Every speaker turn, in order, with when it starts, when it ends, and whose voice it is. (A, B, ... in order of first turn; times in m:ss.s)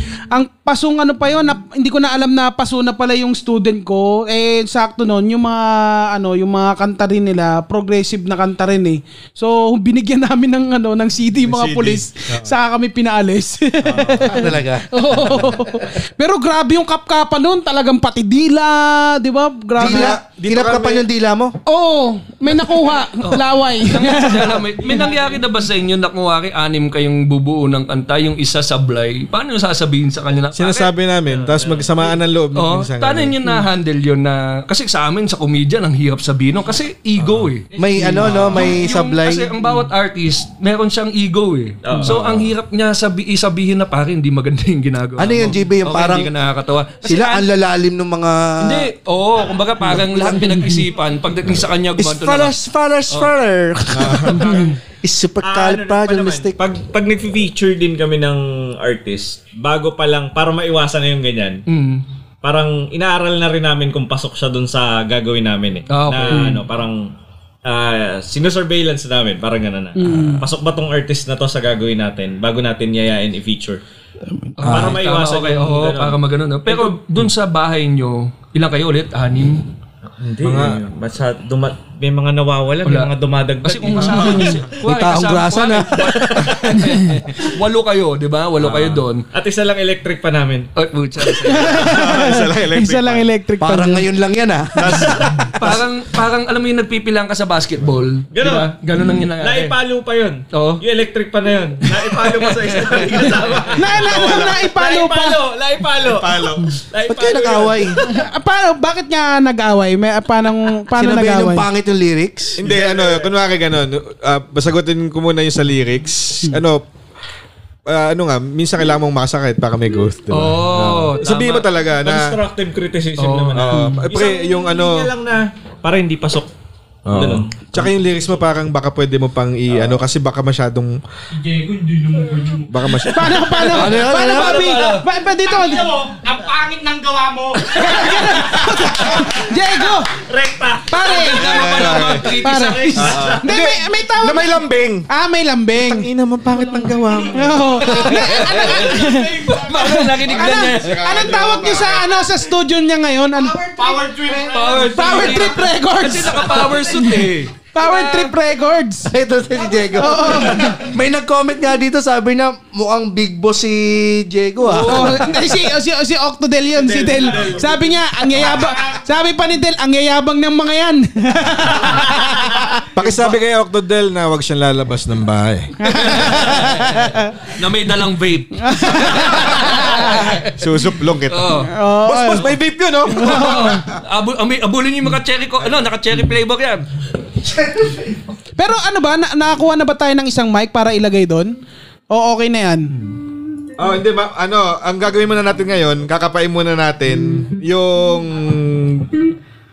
0:00.3-0:20.2 A
0:11.4-0:12.5 B
0:13.8-0:14.5 B
0:14.2-0:15.5 C
0:19.8-0:21.0 B
0:19.8-0:21.5 C
0:21.6-0:25.1 A
0:23.2-0:30.9 D
0:30.5-0:33.3 B
0:31.2-0:32.2 E
0:32.5-0:47.5 D
0:37.2-0:37.5 B
0:37.7-0:38.2 F
0:37.8-0:39.5 C
0:41.8-0:42.2 E
0:45.2-0:46.3 C
0:47.0-0:48.9 C
0:48.6-0:53.3 D
0:49.9-0:50.7 C
0:52.0-0:56.6 C
0:53.9-0:54.6 B
0:55.4-1:01.6 E
1:01.7-1:02.0 D
1:02.4-1:07.1 E
1:05.9-1:06.6 D
1:07.6-1:13.8 E
1:10.0-1:10.4 A
1:14.6-1:15.0 C
1:14.6-1:19.7 D
1:14.6-1:17.0 E
1:20.2-1:24.4 E
1:20.4-1:20.8 B
1:22.8-1:23.1 D
1:23.6-1:29.2 D
1:23.9-1:24.6 A
1:24.0-1:24.5 B
1:24.8-1:26.5 C
1:26.2-1:26.7 E
1:28.6-1:30.7 E
1:30.8-1:32.0 D
1:31.4-1:34.1 A
1:31.7-1:33.2 B
1:33.6-1:35.1 C
1:34.8-1:35.6 B
1:34.9-1:35.5 E
1:35.5-1:39.8 D
1:38.3-1:38.7 E
1:39.4-1:48.1 E
1:40.5-1:40.8 D
1:41.9-1:43.6 D
1:43.8-1:45.4 A
1:43.9-1:44.6 B
1:46.0-1:46.7 B
1:47.1-1:48.0 C
1:48.0-1:51.6 A
1:50.9-1:52.6 C
1:52.6-1:56.8 B
1:52.6-1:53.3 E
1:57.9-2:02.4 B
2:00.3-2:01.6 D
2:01.3-2:06.5 E
2:03.2-2:04.0 D
2:03.6-2:05.1 B
2:07.0-2:11.0 B
2:07.1-2:07.9 E
2:09.7-2:10.0 E
2:11.3-2:13.1 F
2:12.7-2:13.5 B
2:13.1-2:15.9 A
2:13.6-2:15.0 D
2:13.7-2:14.8 C
2:14.7-2:14.9 E
2:15.4-2:18.0 F
2:17.6-2:20.1 A
2:20.1-2:23.6 E
2:20.9-2:21.7 A
2:21.1-2:23.2 D
2:21.4-2:22.3 B
2:22.3-2:26.1 A
2:23.0-2:25.1 B
2:25.8-2:28.4 B
2:26.7-2:27.3 F
2:27.3-2:34.0 A
2:28.1-2:31.2 D
2:29.1-2:29.6 F
2:30.0-2:32.2 B
2:33.4-2:35.6 F
2:34.5-2:37.6 D
2:34.8-2:39.1 A
2:36.3-2:37.0 F
2:39.1-2:45.2 C
2:39.5-2:40.7 F
2:39.9-2:40.8 A
2:44.6-2:45.3 D
2:44.8-2:52.8 A
2:46.8-2:47.7 E
2:46.9-2:47.6 B
2:48.4-2:48.7 E
2:52.9-2:56.7 B
2:55.8-2:57.4 A
2:56.0-3:00.4 D
2:58.6-3:00.4 A
2:59.3-3:04.0 B
3:01.3-3:01.7 D
3:01.7-3:02.5 A
3:03.1-3:03.8 A
3:03.2-3:06.8 D
3:08.6-3:11.6 A
3:12.1-3:12.9 A
3:13.8-3:19.2 B